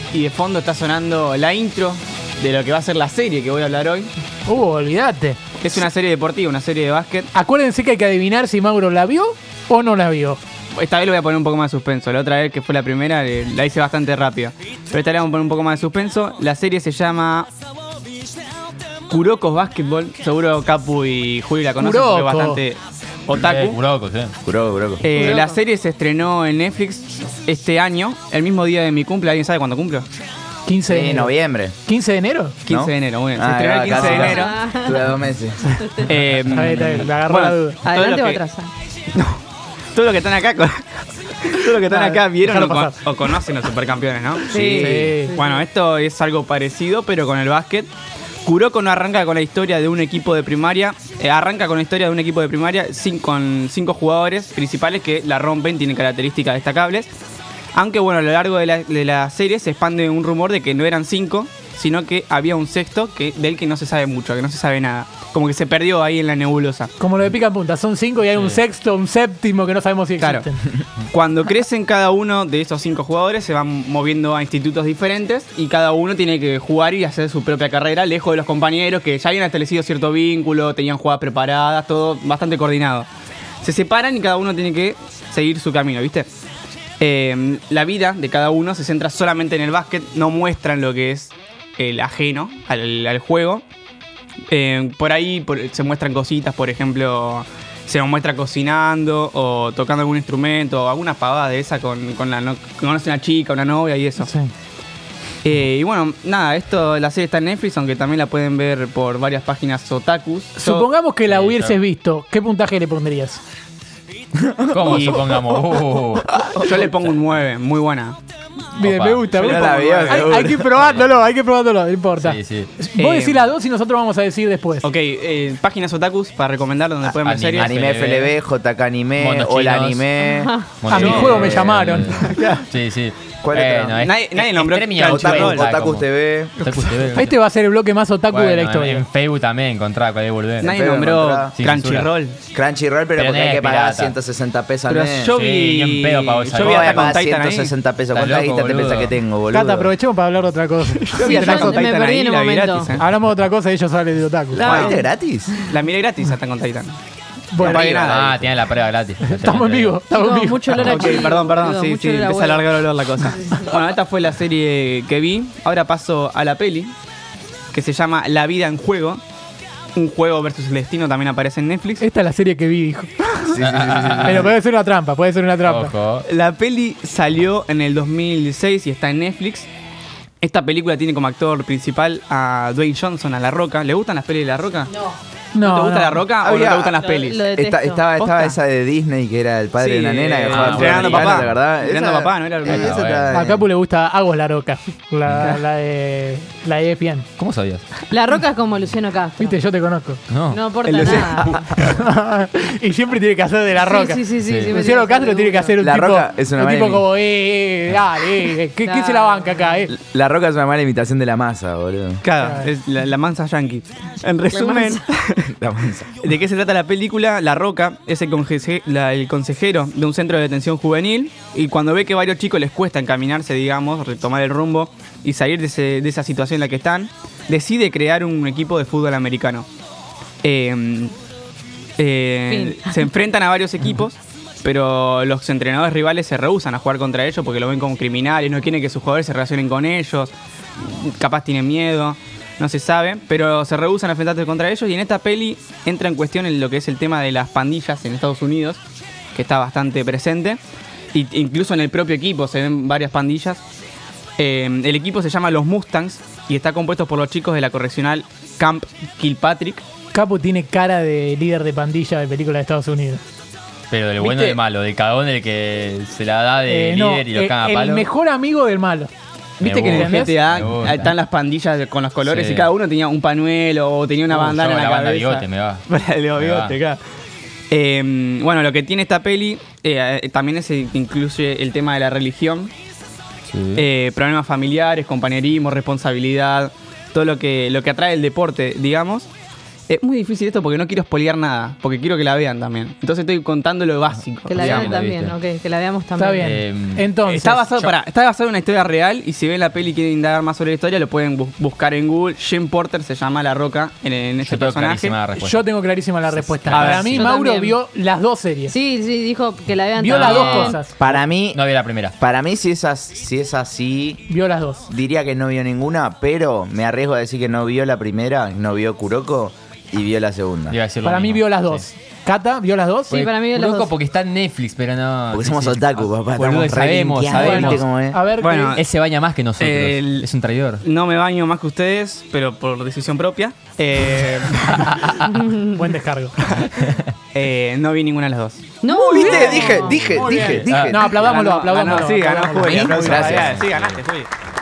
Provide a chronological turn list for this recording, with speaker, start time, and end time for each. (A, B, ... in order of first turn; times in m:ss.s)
0:00.1-0:04.1 A
0:04.5-0:05.4 B
0:05.6-0:07.3 A
0:07.3-0:10.4 B
0:10.7-0:17.5 A
0:19.1-0:23.8 A
0:21.8-0:22.6 B
0:23.3-0:24.3 C
0:24.4-0:25.0 D
0:25.0-0:30.0 A
0:25.1-0:25.5 E
0:30.6-0:31.3 B
0:30.9-0:31.7 D
0:31.8-0:32.6 B
0:32.6-0:34.6 A
0:32.7-0:35.8 D
0:34.0-0:34.3 B
0:34.1-0:35.0 E
0:36.0-0:38.4 A
0:36.5-0:37.8 B
0:37.8-0:38.7 E
0:39.1-0:39.4 A
0:39.9-0:47.9 A
0:41.8-0:43.3 B
0:44.5-0:45.5 E
0:44.6-0:45.3 B
0:48.4-0:57.1 A
0:57.7-1:06.9 A
1:07.0-1:10.7 B
1:10.2-1:10.5 A
1:11.1-1:23.1 A
1:23.6-1:26.3 A
1:27.0-1:33.6 A
1:34.5-1:44.3 A
1:44.2-1:44.5 B
1:45.4-1:50.9 A
1:50.6-1:53.4 B
1:51.3-1:51.8 C
1:54.4-1:54.7 D
1:54.7-1:56.4 C
1:54.8-1:55.3 A
1:56.4-1:56.7 D
1:56.4-1:58.2 A
1:58.7-2:04.9 B
1:58.8-1:59.4 C
1:59.3-2:00.6 A
1:59.4-2:00.6 D
2:00.8-2:01.0 C
2:02.2-2:02.7 C
2:03.0-2:03.5 A
2:04.8-2:07.8 A
2:07.2-2:08.3 C
2:07.6-2:10.6 D
2:09.2-2:10.1 C
2:10.2-2:10.7 E
2:10.8-2:16.0 C
2:10.9-2:12.2 B
2:10.9-2:12.6 A
2:13.4-2:14.0 D
2:14.0-2:15.6 A
2:15.0-2:16.5 D
2:16.6-2:17.4 C
2:17.0-2:19.0 B
2:18.3-2:20.7 C
2:20.6-2:22.4 A
2:20.6-2:21.5 D
2:21.5-2:22.1 C
2:22.5-2:25.3 D
2:23.1-2:24.1 C
2:24.9-2:27.7 A
2:25.3-2:27.1 C
2:26.6-2:29.9 D
2:28.1-2:29.1 C
2:29.5-2:31.9 B
2:31.0-2:33.0 A
2:31.2-2:32.9 E
2:33.0-2:34.7 B
2:34.5-2:35.5 D
2:34.6-2:35.8 E
2:34.6-2:35.0 A
2:35.7-2:37.0 A
2:37.5-2:38.0 B
2:37.6-2:38.6 A
2:37.6-2:40.0 C
2:39.3-2:41.3 B
2:40.1-2:43.7 E
2:40.8-2:46.9 A
2:47.7-2:49.2 A
2:50.0-2:52.0 A
2:52.0-2:53.1 B
2:53.4-2:54.5 D
2:53.6-2:54.5 C
2:54.2-2:55.9 B
2:55.6-2:56.2 C
2:56.2-2:59.7 A
3:00.4-3:04.9 A
3:05.5-3:06.2 B
3:05.6-3:07.4 A
3:06.4-3:07.0 D
3:07.0-3:08.6 E
3:07.5-3:13.7 D
3:09.8-3:13.0 A
3:10.5-3:11.5 C
3:12.6-3:13.3 C
3:13.3-3:17.2 B
3:17.4-3:17.8 C
3:18.1-3:19.6 E
3:19.4-3:20.2 B
3:20.3-3:21.6 C
3:20.5-3:21.6 E
3:20.8-3:21.4 A
3:20.9-3:21.2 D
3:21.7-3:29.9 B
3:23.8-3:25.8 E
3:24.4-3:24.9 C
3:25.8-3:27.1 D
3:28.8-3:29.7 E
3:29.9-3:32.2 D
3:32.2-3:35.5 A
3:32.3-3:32.7 B
3:34.5-3:35.0 E
3:35.5-3:36.1 D
3:36.2-3:49.7 A
3:50.4-3:51.1 A
3:52.0-4:08.8 A
3:52.5-3:53.0 E
4:09.3-4:10.6 A
4:11.1-4:13.6 A
4:14.4-4:19.8 A
4:20.1-4:23.2 B
4:23.9-4:28.1 C
4:24.2-4:24.6 A
4:26.7-4:29.1 B
4:29.6-4:37.0 A
4:29.6-4:31.1 C
4:29.8-4:30.4 B
4:32.2-4:32.7 C
4:34.3-4:36.8 C
4:37.7-4:42.7 A
4:43.5-4:43.8 C
4:43.8-4:49.3 A
4:49.9-4:55.0 A
4:54.5-4:56.5 E
4:54.6-4:55.4 C
4:56.2-4:57.9 B
4:56.4-4:57.1 C
4:57.2-5:05.2 A
5:04.4-5:05.6 C
5:05.4-5:08.7 B
5:06.4-5:07.2 C
5:06.7-5:07.2 A
5:07.0-5:07.8 E
5:08.7-5:10.8 E
5:10.0-5:10.9 B
5:10.1-5:12.1 C
5:11.0-5:11.6 D
5:12.2-5:14.2 D
5:14.3-5:14.9 B
5:14.9-5:20.8 D
5:20.7-5:21.9 C
5:21.0-5:23.3 B
5:23.1-5:27.8 C
5:23.1-5:23.9 E
5:25.3-5:28.2 D
5:27.3-5:28.8 B
5:28.4-5:28.8 A
5:28.7-5:30.8 C
5:29.6-5:30.3 A
5:30.8-5:35.3 A
5:34.9-5:35.2 C
5:35.3-5:35.6 E
5:35.6-5:36.5 B
5:36.4-5:36.7 A
5:37.3-5:38.7 A
5:38.8-5:40.1 E
5:38.9-5:41.3 D
5:39.1-5:43.6 B
5:40.7-5:41.0 C
5:41.1-5:44.3 A
5:42.8-5:43.6 D
5:43.3-5:44.0 C